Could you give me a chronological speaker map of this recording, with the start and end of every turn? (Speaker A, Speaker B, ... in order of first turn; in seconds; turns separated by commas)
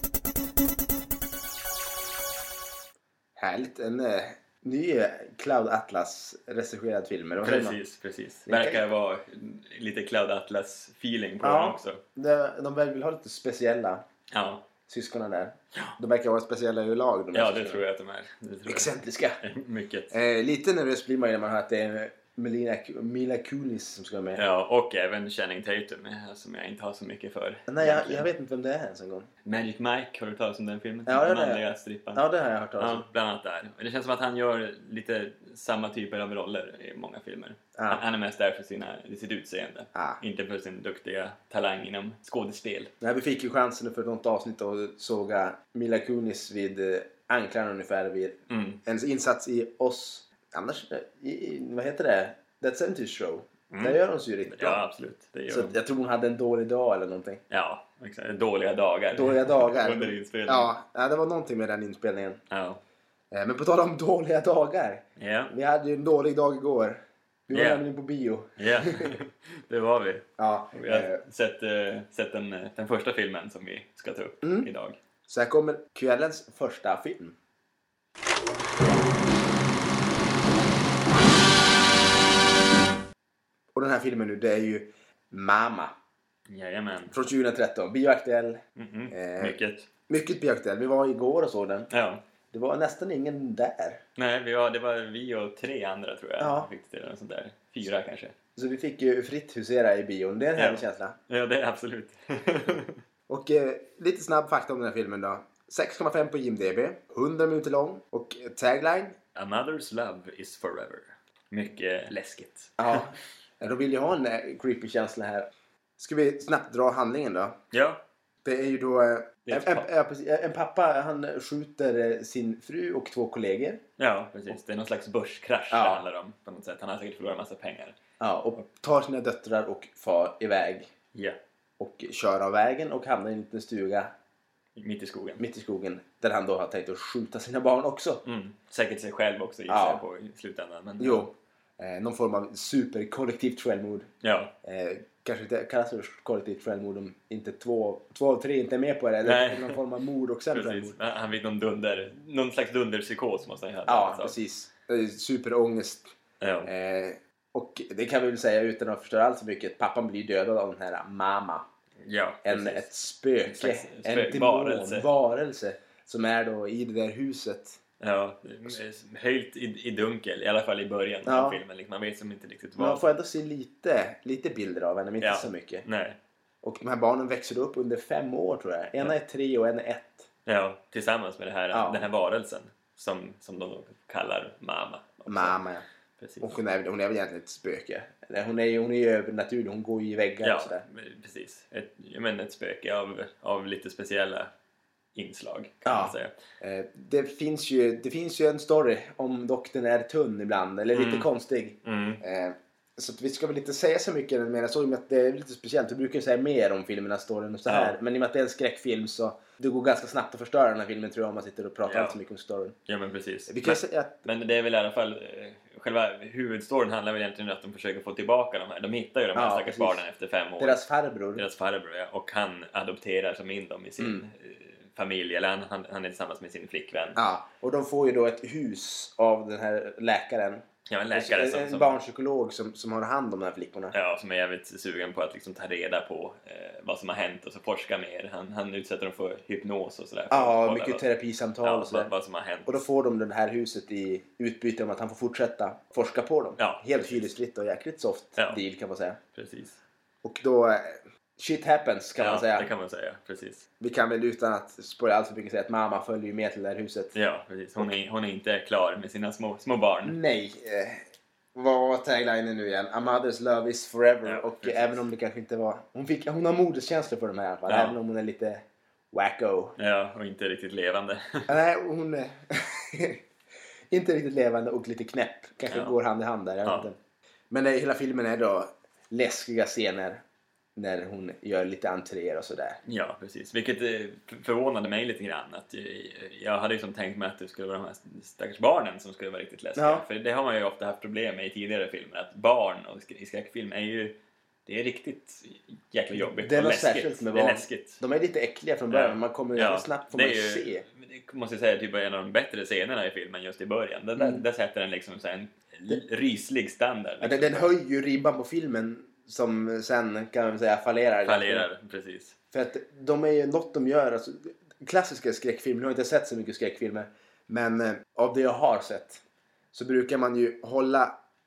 Speaker A: 3.4-7.8, Speaker B: 7.4-12.0, Speaker A: 8.5-8.8, Speaker A: 11.4-14.0, Speaker B: 14.3-14.7, Speaker A: 14.9-17.8, Speaker B: 17.3-20.2, Speaker A: 18.7-19.4, Speaker A: 20.1-24.4, Speaker B: 24.4-28.3, Speaker A: 27.7-29.3, Speaker B: 29.4-32.2, Speaker A: 31.1-31.6, Speaker A: 32.1-33.0, Speaker B: 32.8-42.9, Speaker A: 37.8-38.0, Speaker A: 40.0-40.2, Speaker A: 43.0-54.8, Speaker B: 48.5-48.8, Speaker B: 53.7-55.8, Speaker A: 55.5-57.4, Speaker B: 57.5-60.7, Speaker A: 59.1-62.4, Speaker B: 62.5-62.8, Speaker A: 63.3-69.2, Speaker B: 65.2-65.5, Speaker B: 67.5-67.8, Speaker B: 68.6-75.0, Speaker A: 70.4-71.2, Speaker A: 74.4-74.7, Speaker A: 75.3-77.4, Speaker A: 83.8-85.9, Speaker B: 86.5-87.2, Speaker A: 87.1-89.6, Speaker B: 88.8-89.9, Speaker A: 90.1-91.9, Speaker B: 91.9-92.2, Speaker A: 92.5-94.0, Speaker B: 94.2-98.3, Speaker A: 96.4-96.7, Speaker A: 98.6-101.2, Speaker B: 100.6-103.0, Speaker A: 103.3-109.2, Speaker B: 109.4-113.1, Speaker A: 112.8-117.6, Speaker B: 117.7-118.0, Speaker A: 118.4-123.8, Speaker B: 119.5-119.9, Speaker B: 124.0-128.0, Speaker A: 125.7-126.0, Speaker A: 128.2-130.9, Speaker A: 131.8-134.1, Speaker B: 134.8-135.4, Speaker A: 135.4-138.2, Speaker B: 138.2-141.3, Speaker A: 139.7-140.0, Speaker A: 141.0-144.1, Speaker B: 144.2-144.5, Speaker A: 144.6-151.0, Speaker B: 149.2-149.8, Speaker B: 150.5-154.4, Speaker A: 153.9-156.1, Speaker B: 156.4-156.7, Speaker A: 156.7-161.7, Speaker B: 162.0-162.9, Speaker A: 162.4-167.8, Speaker B: 163.4-165.1, Speaker B: 168.0-173.1, Speaker A: 171.3-171.6, Speaker A: 172.8-175.8, Speaker B: 175.2-176.2, Speaker A: 176.6-180.3, Speaker B: 180.5-185.6, Speaker A: 181.7-182.1, Speaker A: 185.3-185.8, Speaker B: 186.2-186.5, Speaker A: 186.4-190.8, Speaker B: 190.4-194.5, Speaker B: 195.2-196.3, Speaker A: 195.8-212.8, Speaker B: 200.9-201.3, Speaker B: 201.8-202.2, Speaker B: 207.7-208.0, Speaker B: 211.9-212.2, Speaker B: 212.9-220.8, Speaker A: 213.5-214.3, Speaker A: 219.3-220.0, Speaker A: 220.6-221.4, Speaker B: 221.4-227.2, Speaker A: 227.2-233.9, Speaker B: 230.9-232.0, Speaker B: 233.9-241.1, Speaker A: 240.3-242.1, Speaker B: 241.6-242.8, Speaker A: 242.7-249.2, Speaker B: 246.6-247.3, Speaker B: 249.3-249.8, Speaker A: 250.2-252.7, Speaker B: 252.2-253.7, Speaker A: 253.8-257.1, Speaker B: 257.1-260.2, Speaker A: 260.0-261.0, Speaker A: 261.6-269.8, Speaker B: 264.2-265.0, Speaker B: 267.7-268.0, Speaker B: 269.8-271.6, Speaker A: 271.5-273.2, Speaker A: 273.9-277.0, Speaker B: 275.7-275.9, Speaker A: 277.5-280.2, Speaker A: 280.8-282.8, Speaker B: 282.9-294.1, Speaker A: 289.8-290.0, Speaker B: 294.7-298.0, Speaker A: 296.2-300.8, Speaker B: 298.9-307.7, Speaker A: 304.2-304.4, Speaker A: 307.2-311.7, Speaker B: 311.2-312.4, Speaker A: 312.5-319.2, Speaker A: 319.7-321.1